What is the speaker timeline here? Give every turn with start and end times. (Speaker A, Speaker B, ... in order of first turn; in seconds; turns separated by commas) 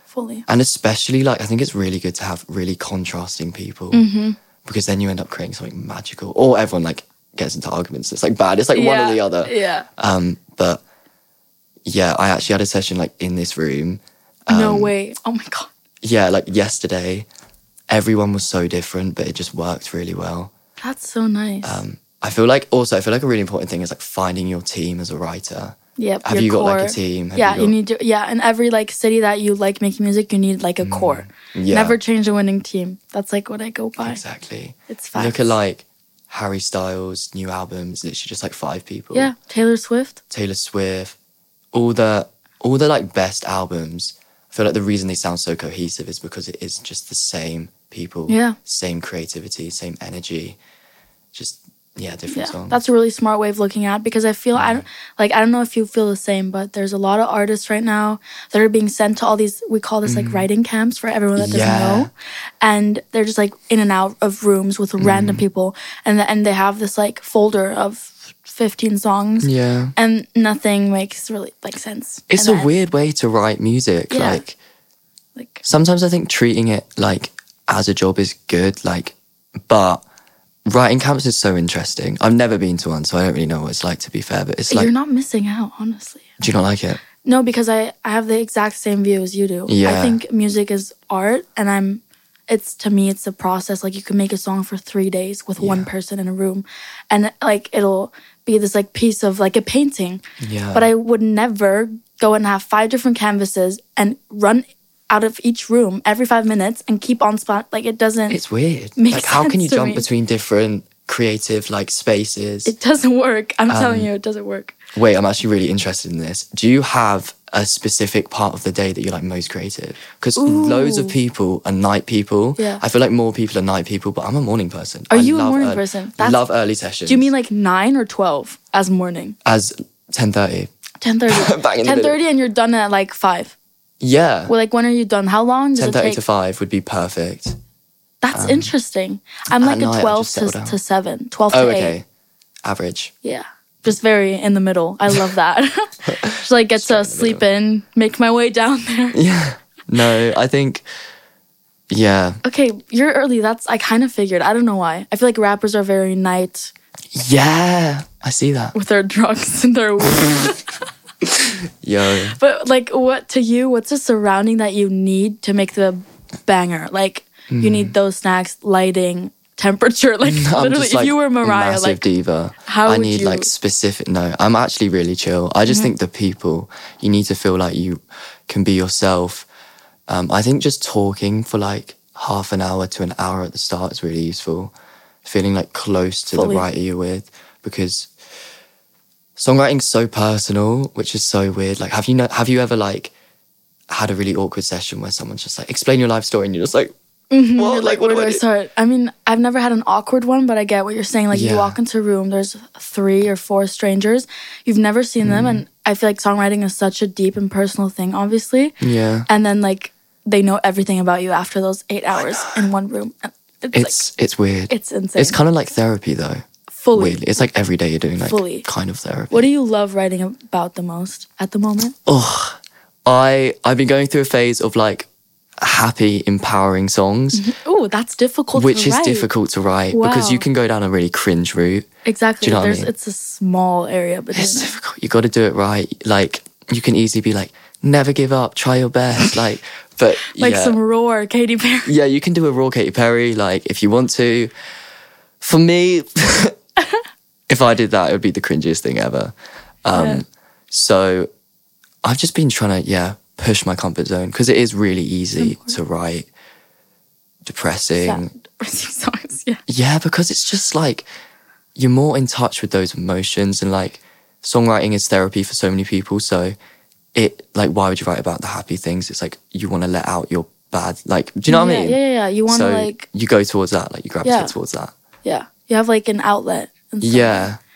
Speaker A: 0.1-0.5, Speaker B: 0.5-4.1, Speaker A: 3.9-4.4, Speaker B: 4.6-10.8, Speaker A: 8.7-9.9, Speaker B: 11.8-14.9, Speaker A: 14.5-15.7, Speaker B: 16.0-17.3, Speaker B: 17.9-20.5, Speaker A: 20.8-21.8, Speaker B: 21.6-27.8, Speaker A: 26.0-34.2, Speaker B: 30.8-32.0, Speaker B: 34.0-39.3, Speaker A: 34.9-35.6, Speaker A: 39.1-40.2, Speaker B: 40.3-41.2, Speaker B: 41.7-50.6, Speaker A: 48.3-48.6, Speaker B: 51.3-52.8, Speaker A: 52.3-72.7, Speaker B: 54.5-54.9, Speaker B: 60.0-60.5, Speaker B: 61.4-62.1, Speaker B: 65.0-65.4, Speaker B: 69.4-69.9, Speaker B: 72.3-74.5, Speaker A: 74.1-74.5, Speaker A: 75.4-75.7, Speaker B: 75.7-79.2, Speaker B: 79.7-80.0, Speaker B: 80.7-84.9, Speaker A: 84.7-86.3, Speaker B: 86.4-87.0, Speaker A: 87.2-100.2, Speaker B: 89.7-90.2, Speaker B: 95.6-95.9, Speaker B: 100.4-100.9, Speaker A: 100.7-108.4, Speaker B: 108.3-112.7, Speaker A: 109.0-110.1, Speaker A: 112.7-114.8, Speaker B: 113.7-114.1, Speaker B: 114.9-127.3, Speaker A: 120.4-121.2, Speaker A: 122.6-122.8, Speaker A: 125.1-126.4, Speaker A: 127.1-129.4, Speaker B: 129.4-130.7, Speaker A: 131.0-133.6, Speaker B: 131.3-132.2, Speaker B: 134.0-134.5, Speaker A: 134.5-136.2, Speaker B: 135.8-137.6, Speaker A: 138.2-141.9, Speaker B: 138.3-138.7, Speaker B: 139.6-140.8, Speaker B: 141.5-142.1, Speaker B: 142.6-143.1, Speaker A: 143.2-149.2, Speaker B: 146.1-147.4, Speaker B: 149.1-150.8, Speaker B: 151.9-152.4, Speaker A: 152.4-156.7, Speaker B: 157.2-158.8, Speaker A: 158.7-160.8, Speaker B: 161.2-162.4, Speaker A: 162.3-172.1, Speaker B: 167.5-167.9, Speaker B: 170.2-179.5, Speaker A: 172.7-173.5, Speaker B: 180.1-184.7, Speaker B: 185.2-188.1, Speaker A: 186.3-186.7, Speaker B: 189.4-193.1, Speaker B: 193.9-196.9, Speaker A: 197.3-208.8, Speaker B: 197.6-198.4, Speaker B: 201.3-201.8, Speaker B: 205.2-205.6, Speaker B: 208.8-209.3, Speaker A: 209.3-214.0, Speaker B: 212.3-212.6, Speaker B: 213.7-219.5, Speaker A: 214.7-215.4, Speaker A: 216.7-217.2, Speaker A: 218.2-218.7, Speaker A: 219.3-221.9, Speaker B: 222.1-225.1, Speaker B: 225.6-227.5, Speaker A: 227.3-229.3, Speaker B: 228.6-231.9, Speaker A: 229.9-230.4, Speaker A: 232.1-234.8, Speaker B: 232.4-232.9, Speaker B: 234.3-240.8, Speaker A: 240.3-241.9, Speaker B: 241.8-244.5, Speaker B: 245.4-246.6, Speaker B: 247.5-249.3, Speaker B: 249.8-251.3, Speaker A: 249.9-250.2, Speaker B: 252.0-256.3, Speaker A: 255.4-255.8, Speaker B: 257.4-258.3, Speaker A: 258.0-259.6, Speaker B: 259.7-261.1, Speaker B: 261.8-266.6, Speaker B: 267.1-274.9, Speaker A: 271.5-273.1, Speaker A: 274.2-274.5, Speaker A: 275.2-277.5, Speaker B: 277.0-277.6